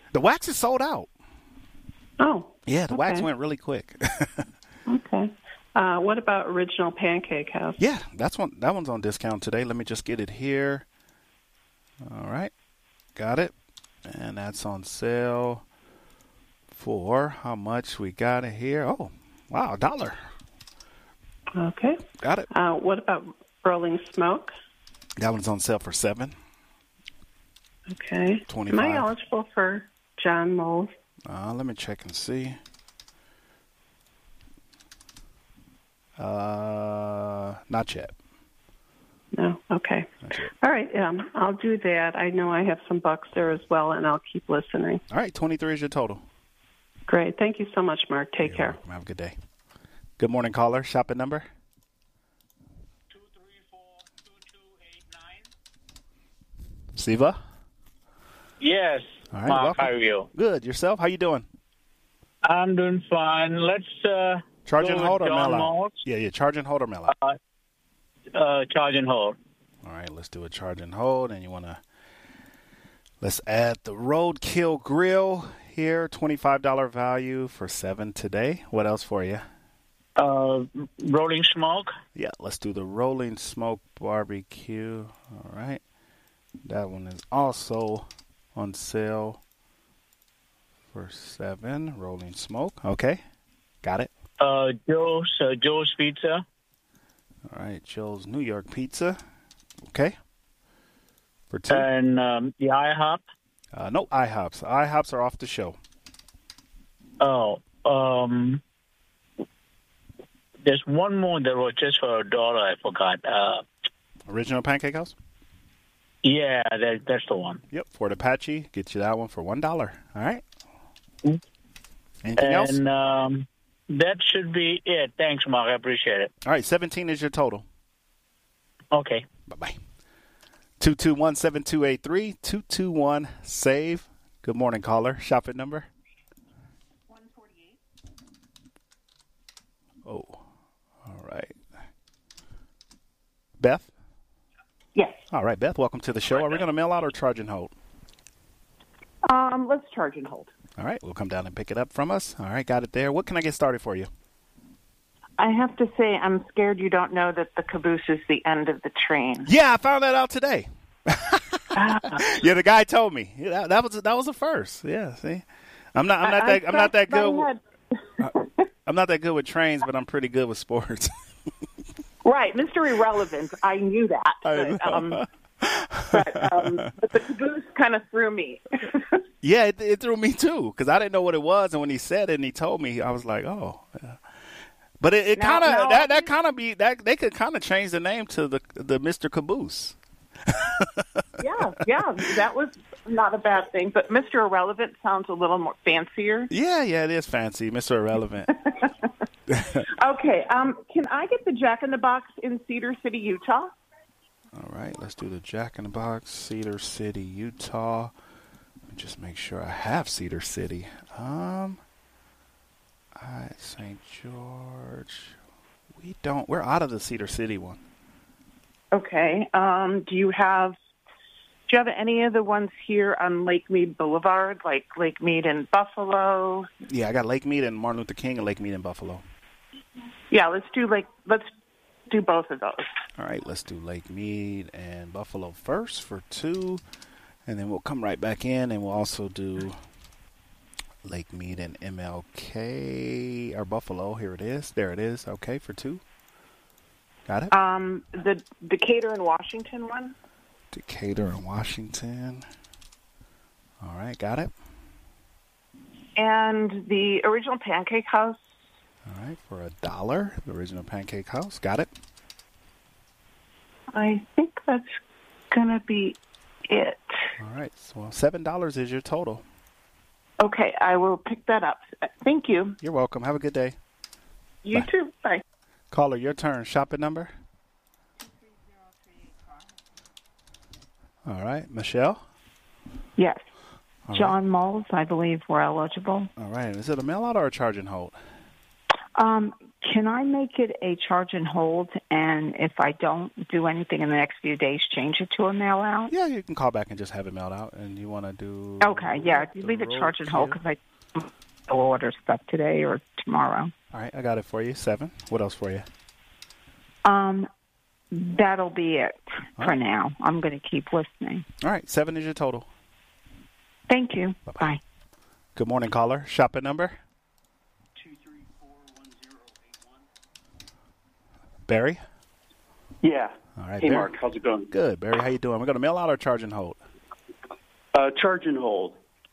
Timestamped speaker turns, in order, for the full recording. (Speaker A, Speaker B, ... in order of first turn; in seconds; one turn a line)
Speaker A: 0.1-1.1
Speaker B: 2.2-3.3
Speaker A: 2.7-4.4
Speaker B: 4.9-7.8
Speaker A: 7.8-10.8
Speaker A: 12.0-12.5
Speaker A: 13.2-13.5
Speaker A: 14.1-15.6
Speaker A: 16.7-20.2
Speaker B: 21.6-24.5
Speaker A: 22.2-22.5
Speaker A: 25.2-26.3
Speaker B: 27.9-30.9
Speaker A: 28.5-29.1
Speaker A: 31.2-32.6
Speaker A: 36.2-38.1
Speaker B: 39.3-45.0
Speaker A: 40.2-40.5
Speaker A: 45.1-46.2
Speaker B: 47.1-48.8
Speaker A: 48.4-49.3
Speaker A: 50.2-51.5
Speaker A: 57.0-57.4
Speaker C: 58.6-60.3
Speaker A: 59.3-61.5
Speaker C: 62.4-66.0
Speaker A: 64.7-67.1
Speaker C: 67.1-67.4
Speaker C: 68.3-69.3
Speaker A: 69.8-71.8
Speaker A: 73.2-79.4
Speaker C: 80.2-81.9
Speaker A: 82.1-85.8
Speaker A: 86.6-89.4
Speaker A: 90.9-93.2
Speaker A: 93.8-94.1
Speaker C: 94.4-96.4
Speaker A: 97.5-99.2
Speaker A: 99.9-100.1
Speaker A: 101.5-101.9
Speaker C: 101.7-103.2
Speaker A: 103.7-105.8
Speaker C: 107.2-108.6
Speaker C: 110.6-113.6
Speaker A: 114.3-115.1
Speaker C: 116.2-117.6
Speaker A: 117.7-120.4
Speaker A: 122.2-122.8
Speaker C: 122.4-126.3
Speaker A: 126.4-127.6
Speaker C: 128.9-129.2
Speaker A: 129.5-129.8
Speaker A: 130.8-135.9
Speaker A: 140.1-140.4
Speaker A: 141.0-141.6
Speaker A: 143.6-143.9
Speaker D: 144.9-145.2
Speaker A: 145.3-147.7
Speaker D: 149.3-150.5
Speaker A: 150.8-154.1
Speaker D: 155.4-159.5
Speaker A: 159.4-165.4
Speaker D: 161.8-162.2
Speaker A: 165.9-167.5
Speaker D: 166.2-167.6
Speaker D: 168.2-168.4
Speaker A: 168.8-171.1
Speaker D: 172.2-175.2
Speaker A: 174.4-176.9
Speaker D: 176.1-178.9
Speaker A: 179.4-184.2
Speaker A: 185.0-189.9
Speaker D: 185.3-186.3
Speaker A: 190.5-191.2
Speaker D: 191.4-196.5
Speaker A: 196.5-198.5
Speaker A: 199.5-199.8
Speaker D: 200.0-203.7
Speaker A: 204.5-208.1
Speaker A: 208.9-211.8
Speaker A: 213.2-215.3
Speaker A: 216.0-217.8
Speaker D: 218.9-220.8
Speaker D: 221.7-226.7
Speaker A: 226.9-229.2
Speaker D: 230.3-231.5
Speaker D: 232.1-232.9
Speaker A: 233.2-236.8
Speaker A: 237.4-239.8
Speaker A: 241.0-246.0
Speaker A: 247.3-247.5
Speaker D: 247.5-250.1
Speaker A: 250.7-252.4
Speaker A: 253.8-254.5
Speaker D: 256.2-258.4
Speaker A: 259.1-261.9
Speaker D: 263.9-265.0
Speaker D: 265.5-267.2
Speaker A: 267.4-269.4
Speaker D: 270.4-272.8
Speaker A: 272.8-273.8
Speaker D: 274.6-275.4
Speaker A: 275.9-277.3
Speaker A: 281.2-282.2
Speaker E: 283.2-283.4
Speaker A: 284.1-284.4
Speaker E: 284.1-286.3
Speaker A: 286.4-288.1
Speaker E: 289.2-296.1
Speaker A: 296.1-300.6
Speaker E: 298.8-303.7
Speaker A: 303.9-305.8
Speaker E: 307.0-307.5
Speaker E: 308.1-311.4
Speaker A: 311.6-312.6
Speaker E: 313.9-314.8
Speaker A: 314.5-314.7
Speaker A: 315.6-317.0
Speaker A: 321.7-322.0
Speaker F: 323.0-324.7
Speaker A: 323.6-324.1
Speaker A: 324.7-326.8
Speaker F: 327.9-329.0